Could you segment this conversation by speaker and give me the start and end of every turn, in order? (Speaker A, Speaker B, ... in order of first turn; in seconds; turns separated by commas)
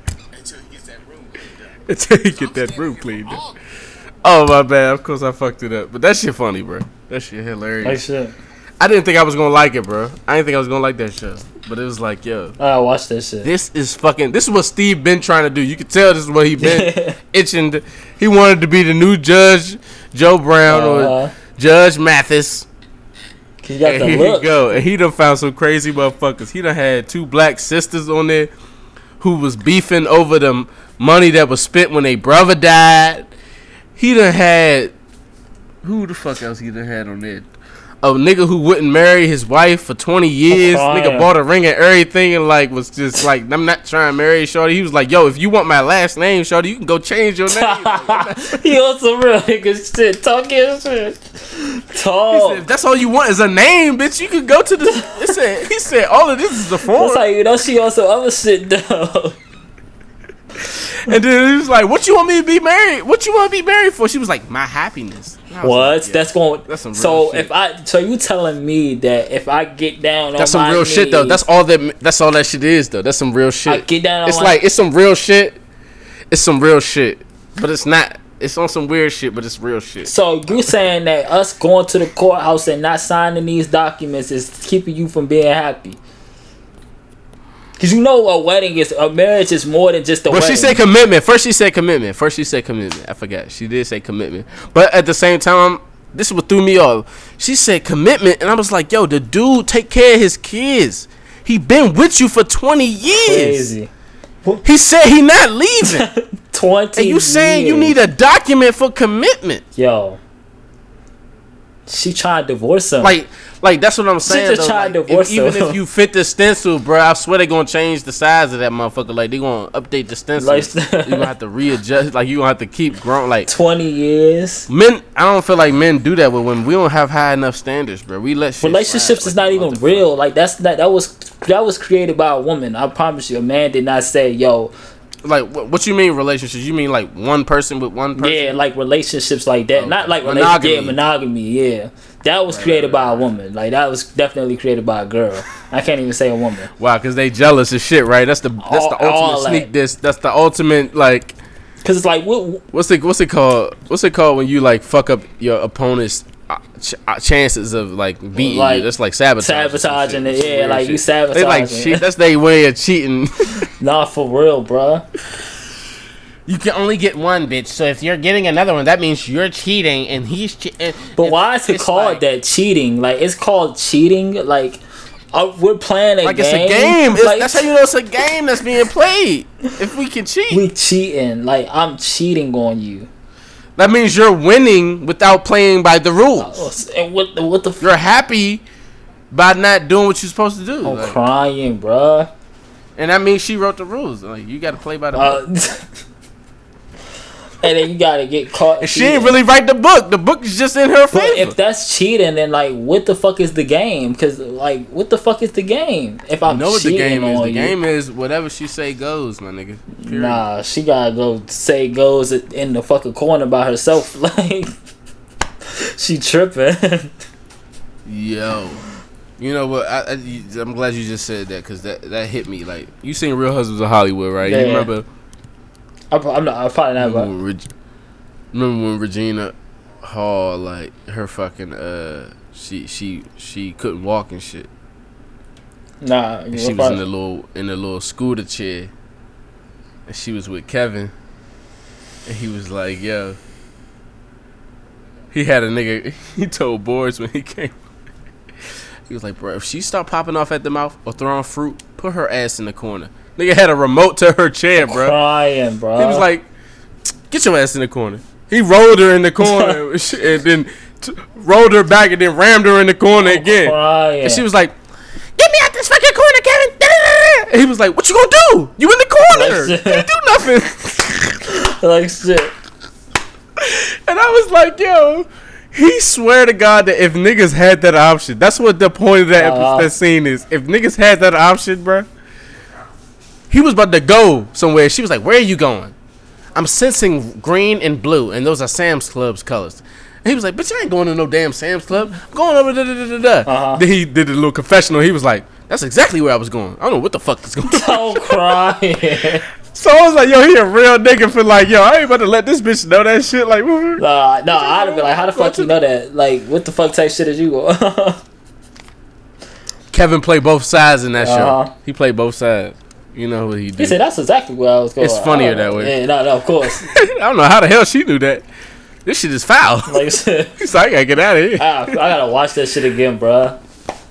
Speaker A: 0.3-1.8, Speaker B: 1.9-3.4, Speaker A: 2.3-3.6, Speaker B: 4.2-8.0, Speaker C: 7.8-8.3, Speaker B: 8.8-12.6, Speaker C: 12.6-13.5, Speaker B: 13.4-22.6, Speaker C: 16.6-17.2, Speaker C: 20.7-21.3, Speaker C: 23.6-24.5, Speaker B: 23.8-28.5, Speaker B: 29.2-33.3, Speaker B: 34.0-34.9, Speaker B: 35.8-37.5, Speaker B: 38.0-48.6, Speaker C: 40.5-41.3, Speaker C: 47.5-52.6, Speaker B: 52.3-57.2, Speaker C: 56.9-59.4, Speaker B: 60.8-67.5, Speaker C: 65.6-71.4, Speaker B: 70.4-75.6, Speaker C: 73.7-74.6, Speaker B: 76.3-80.7, Speaker C: 80.0-86.0, Speaker C: 87.8-90.8, Speaker B: 90.3-103.6, Speaker C: 103.3-103.9, Speaker B: 104.6-106.1, Speaker C: 105.8-107.9, Speaker B: 107.0-109.6, Speaker C: 109.8-110.2, Speaker C: 111.9-113.1, Speaker B: 113.0-123.5, Speaker C: 114.3-115.8, Speaker C: 120.4-121.3, Speaker C: 123.5-124.7, Speaker B: 124.7-130.1, Speaker C: 128.6-134.7, Speaker B: 135.2-138.6, Speaker C: 138.2-146.7, Speaker B: 139.7-141.0, Speaker B: 142.5-143.3, Speaker B: 146.8-151.4, Speaker C: 148.6-149.7, Speaker C: 151.8-152.6, Speaker B: 152.7-163.7, Speaker C: 158.3-158.9, Speaker C: 159.4-162.0, Speaker C: 163.8-165.0, Speaker B: 166.5-172.2, Speaker C: 171.2-174.8, Speaker C: 175.3-177.7, Speaker B: 176.2-180.6, Speaker C: 180.5-183.1, Speaker B: 183.8-186.6, Speaker C: 186.4-187.9, Speaker B: 187.8-188.6, Speaker B: 189.3-191.2, Speaker C: 190.8-192.3, Speaker B: 193.0-195.4, Speaker C: 195.1-195.8, Speaker C: 197.6-199.4, Speaker B: 198.8-201.5, Speaker C: 201.1-207.7, Speaker B: 206.5-210.4, Speaker C: 210.0-214.7, Speaker C: 215.7-217.1, Speaker B: 218.1-218.8, Speaker B: 219.4-225.1, Speaker C: 224.4-224.9, Speaker C: 226.1-227.3, Speaker B: 227.0-227.7, Speaker B: 228.5-234.7, Speaker C: 236.0-237.0, Speaker B: 236.5-238.9, Speaker B: 240.1-241.1, Speaker B: 242.2-243.4, Speaker B: 245.3-247.7, Speaker B: 249.1-255.2, Speaker C: 254.8-256.2, Speaker B: 255.9-256.4, Speaker B: 257.3-264.7, Speaker C: 259.4-259.8, Speaker C: 263.2-264.4, Speaker B: 265.4-271.4, Speaker C: 269.3-270.1, Speaker C: 271.4-272.5, Speaker B: 273.6-282.1, Speaker C: 279.3-279.9, Speaker B: 283.5-285.9, Speaker B: 286.6-298.6, Speaker C: 293.4-293.8, Speaker C: 297.7-299.4, Speaker B: 299.7-305.8, Speaker C: 304.0-308.2, Speaker B: 309.9-313.9, Speaker C: 311.2-311.7, Speaker C: 313.8-316.9, Speaker B: 315.0-315.9, Speaker B: 316.8-318.4, Speaker B: 319.0-322.1, Speaker C: 319.9-320.6, Speaker C: 321.6-323.6